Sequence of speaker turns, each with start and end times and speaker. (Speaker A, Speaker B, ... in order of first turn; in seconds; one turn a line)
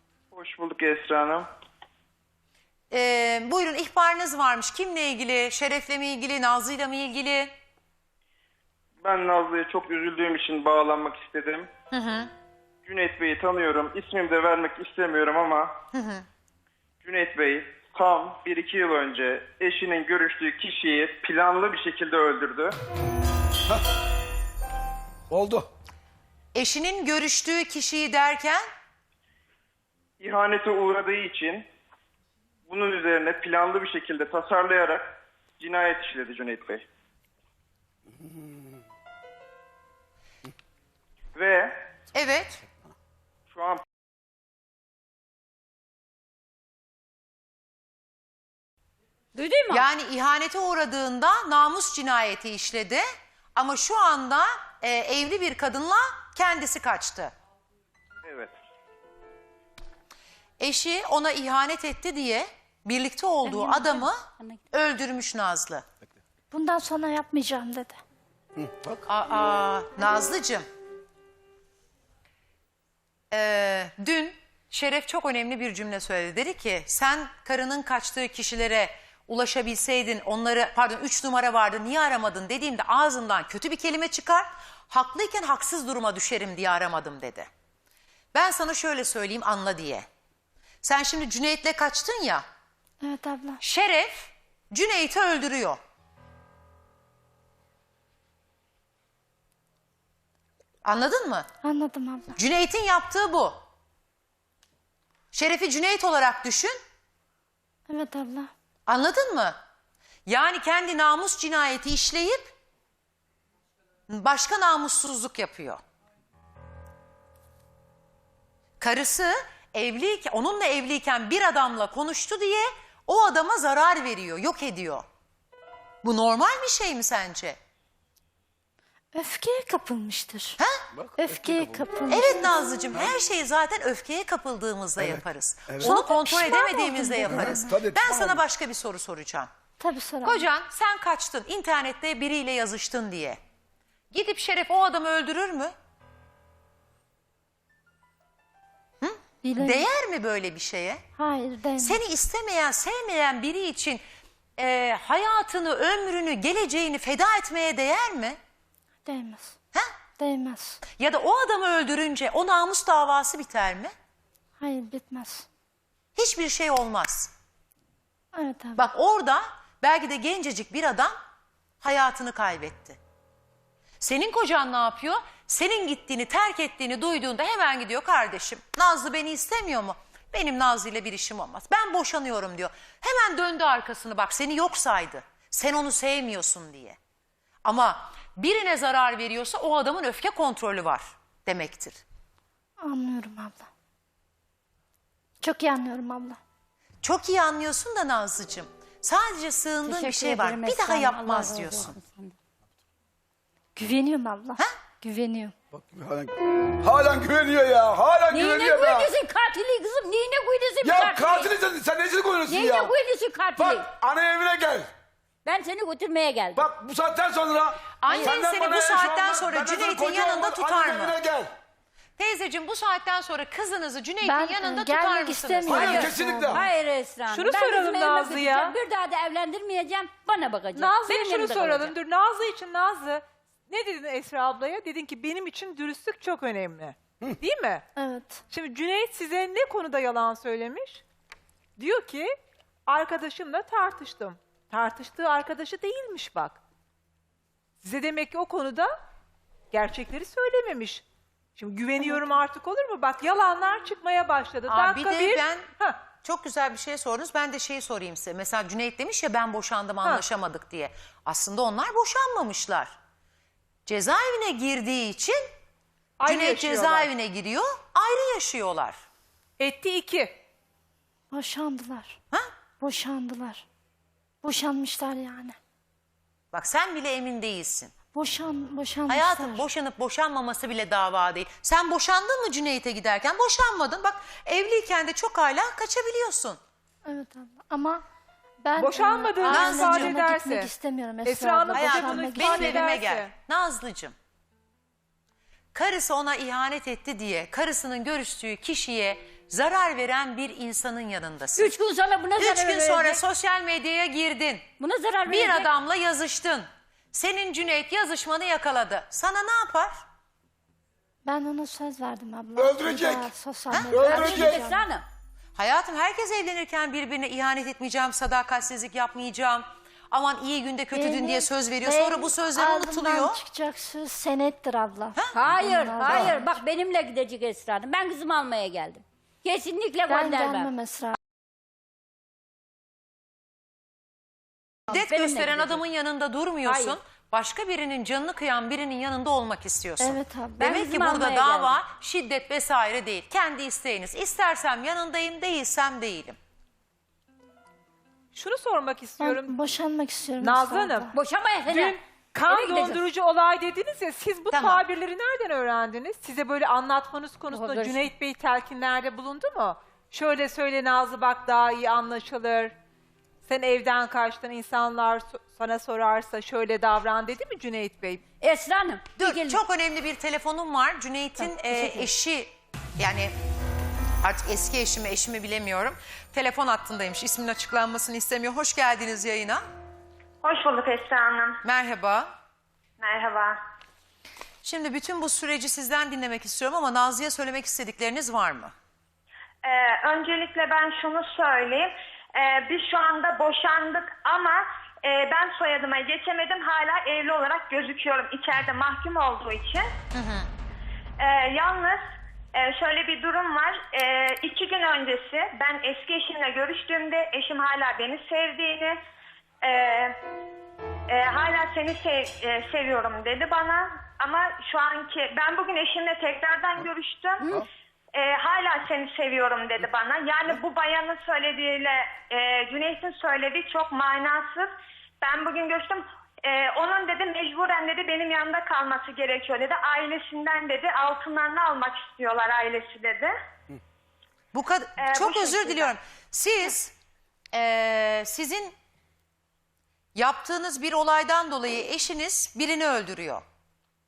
Speaker A: 0.8-1.4
Speaker B: 2.9-7.5
Speaker A: 9.0-11.7
Speaker B: 11.9-12.3
Speaker A: 12.9-15.7
Speaker B: 15.9-16.2
Speaker A: 17.4-22.7
Speaker C: 25.3-25.7
Speaker B: 26.5-28.6
Speaker A: 30.3-31.6
Speaker A: 32.9-35.0
Speaker A: 35.8-36.8
Speaker A: 41.4-41.6
Speaker B: 42.1-42.6
Speaker D: 49.3-49.9
Speaker B: 49.7-53.0
Speaker B: 53.5-57.3
Speaker A: 58.2-58.5
Speaker B: 60.6-65.8
Speaker D: 63.4-64.6
Speaker E: 66.5-68.0
Speaker B: 69.0-70.6
Speaker B: 73.3-87.5
Speaker B: 88.3-90.0
Speaker B: 90.8-92.4
Speaker E: 93.0-93.6
Speaker B: 93.6-95.8
Speaker B: 100.8-101.5
Speaker E: 101.6-102.3
Speaker B: 102.3-103.6
Speaker B: 105.3-106.8
Speaker E: 107.9-108.5
Speaker B: 108.9-109.6
Speaker B: 110.3-112.5
Speaker B: 114.1-115.8
Speaker B: 118.8-125.0
Speaker B: 126.0-127.6
Speaker E: 129.1-130.6
Speaker C: 131.0-131.8
Speaker E: 131.2-132.5
Speaker B: 132.1-139.5
Speaker C: 135.0-135.9
Speaker E: 135.8-137.7
Speaker C: 137.2-138.4
Speaker E: 139.8-140.5
Speaker B: 140.2-143.4
Speaker B: 144.1-145.7
Speaker B: 149.0-151.0
Speaker E: 149.4-149.9
Speaker E: 151.2-152.0
Speaker B: 151.8-154.0
Speaker B: 154.6-158.4
Speaker E: 159.0-159.6
Speaker E: 160.2-160.8
Speaker B: 160.9-163.9
Speaker E: 164.6-165.4
Speaker B: 166.2-167.3
Speaker E: 168.3-168.8
Speaker B: 168.8-171.1
Speaker B: 171.8-173.0
Speaker B: 174.0-187.0
Speaker B: 187.6-192.0
Speaker E: 192.8-193.7
Speaker E: 195.4-196.4
Speaker B: 197.0-202.0
Speaker D: 199.8-202.3
Speaker E: 203.7-205.5
Speaker C: 205.7-209.1
Speaker D: 208.3-211.6
Speaker C: 210.8-212.9
Speaker D: 212.4-213.9
Speaker C: 213.6-214.9
Speaker D: 215.4-216.7
Speaker C: 216.5-221.5
Speaker B: 218.0-221.2
Speaker B: 222.2-226.1
Speaker E: 224.2-226.6
Speaker C: 225.7-226.7
Speaker F: 225.7-226.1
Speaker D: 226.6-231.9
Speaker F: 227.3-228.8
Speaker F: 230.7-237.8
Speaker E: 237.9-238.4
Speaker F: 238.5-241.0
Speaker F: 241.8-242.3
Speaker F: 242.9-246.6
Speaker F: 247.8-248.9
Speaker F: 249.7-251.0
Speaker F: 251.6-256.0
Speaker B: 254.7-255.7
Speaker B: 256.2-262.9
Speaker B: 263.9-265.4
Speaker F: 266.2-267.1
Speaker B: 266.2-269.0
Speaker F: 269.6-270.4
Speaker E: 271.3-272.2
Speaker E: 272.8-273.6
Speaker E: 274.4-275.6
Speaker B: 276.5-277.9
Speaker E: 278.1-279.6
Speaker B: 279.1-286.6
Speaker E: 287.0-288.0
Speaker E: 288.6-292.8
Speaker F: 288.8-290.7
Speaker B: 289.4-290.2
Speaker F: 291.2-293.3
Speaker B: 291.7-294.1
Speaker B: 295.7-301.7
Speaker D: 301.6-303.2
Speaker B: 302.4-304.7
Speaker D: 304.8-305.7
Speaker B: 305.2-309.9
Speaker E: 311.2-314.9
Speaker C: 312.6-313.3
Speaker B: 313.7-314.0
Speaker C: 313.9-314.6
Speaker D: 314.1-315.1
Speaker B: 315.6-323.4
Speaker E: 320.9-326.5
Speaker B: 325.1-325.4
Speaker D: 325.3-330.7
Speaker B: 326.0-326.3
Speaker E: 330.1-331.2
Speaker B: 334.9-346.4
Speaker D: 334.9-335.8
Speaker D: 336.6-337.0
Speaker E: 340.0-340.7
Speaker D: 340.6-341.8
Speaker F: 348.3-349.5
Speaker E: 349.2-351.1
Speaker F: 350.4-351.1
Speaker D: 351.1-352.9
Speaker F: 351.6-362.7
Speaker B: 354.5-354.8
Speaker D: 357.5-358.1
Speaker F: 363.4-368.2
Speaker D: 368.4-369.6
Speaker B: 369.2-373.3
Speaker D: 371.4-372.1
Speaker B: 374.2-379.6
Speaker G: 380.4-381.6
Speaker B: 381.6-382.3
Speaker G: 383.0-383.6
Speaker B: 384.6-388.7
Speaker G: 389.6-399.9
Speaker B: 400.1-400.5
Speaker G: 401.2-409.0
Speaker G: 409.6-410.1
Speaker G: 411.1-424.7
Speaker G: 425.2-433.3
Speaker B: 434.5-436.9
Speaker G: 435.0-435.9
Speaker B: 437.5-438.7
Speaker B: 440.1-443.4